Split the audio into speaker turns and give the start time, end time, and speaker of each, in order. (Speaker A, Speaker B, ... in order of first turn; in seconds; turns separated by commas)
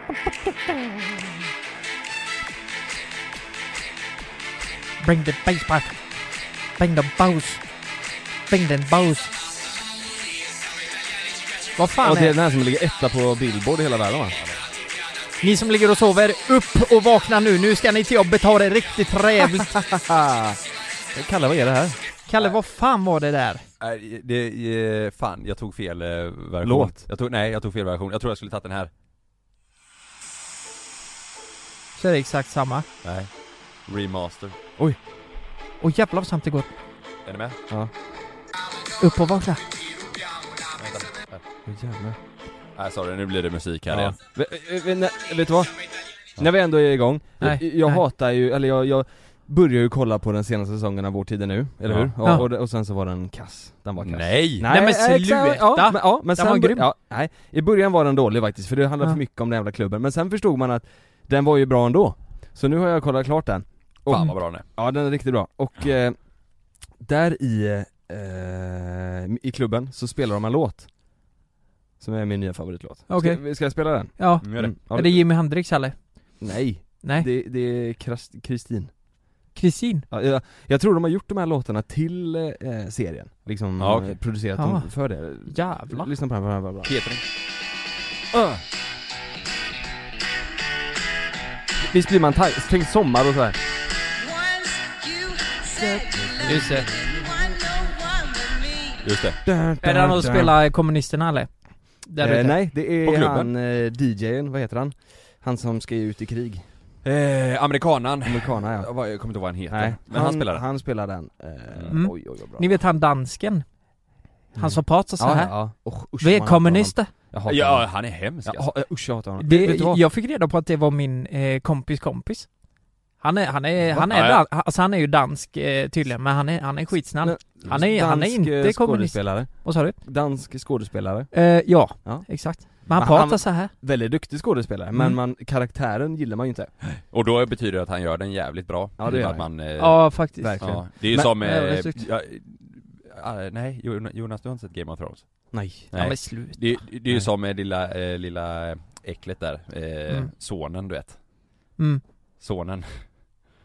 Speaker A: 0.5-0.9, Speaker A: 5.0-6.1, Speaker A: 6.8-7.7, Speaker A: 8.5-9.3, Speaker A: 11.8-12.4, Speaker B: 12.0-14.4, Speaker A: 15.4-19.7, Speaker B: 19.4-20.6, Speaker B: 21.1-22.0, Speaker A: 22.3-23.7, Speaker C: 23.8-28.9, Speaker B: 26.6-27.0, Speaker A: 32.0-32.9, Speaker C: 33.0-33.3, Speaker C: 33.9-34.6, Speaker A: 35.8-36.7, Speaker C: 37.3-37.6, Speaker A: 39.0-39.6, Speaker C: 40.8-41.4, Speaker B: 41.7-42.2, Speaker C: 42.8-44.2, Speaker B: 43.9-66.2, Speaker A: 47.4-48.0, Speaker C: 51.9-52.1, Speaker C: 54.0-54.7, Speaker A: 54.6-56.9, Speaker C: 64.1-64.7, Speaker B: 67.0-70.9, Speaker B: 72.0-75.2, Speaker A: 73.1-73.4, Speaker A: 74.1-76.2, Speaker C: 74.4-74.7, Speaker B: 76.4-78.9, Speaker A: 77.0-77.3, Speaker A: 79.5-80.1, Speaker B: 80.1-86.9, Speaker C: 83.8-84.2, Speaker A: 84.6-84.9, Speaker A: 85.5-86.1, Speaker C: 86.8-87.2, Speaker B: 88.3-88.6, Speaker B: 91.8-93.7, Speaker B: 95.7-97.4, Speaker A: 96.4-96.9, Speaker C: 99.0-99.4, Speaker B: 99.4-100.5, Speaker A: 99.8-102.6, Speaker B: 102.2-106.7, Speaker C: 103.0-103.5, Speaker C: 107.0-110.7, Speaker B: 108.2-109.0, Speaker B: 109.7-112.7, Speaker C: 111.7-112.0, Speaker A: 111.9-113.7, Speaker A: 114.5-117.1, Speaker B: 114.5-120.0, Speaker C: 117.5-118.7, Speaker A: 119.4-122.5, Speaker A: 123.2-130.0, Speaker C: 124.0-124.4, Speaker B: 127.2-136.8, Speaker A: 131.3-133.7, Speaker A: 134.9-135.2, Speaker C: 137.0-151.2, Speaker B: 139.0-139.5, Speaker A: 139.8-142.0, Speaker B: 140.4-141.4, Speaker B: 145.5-145.9, Speaker A: 145.9-146.8, Speaker A: 151.8-152.0, Speaker C: 152.4-153.0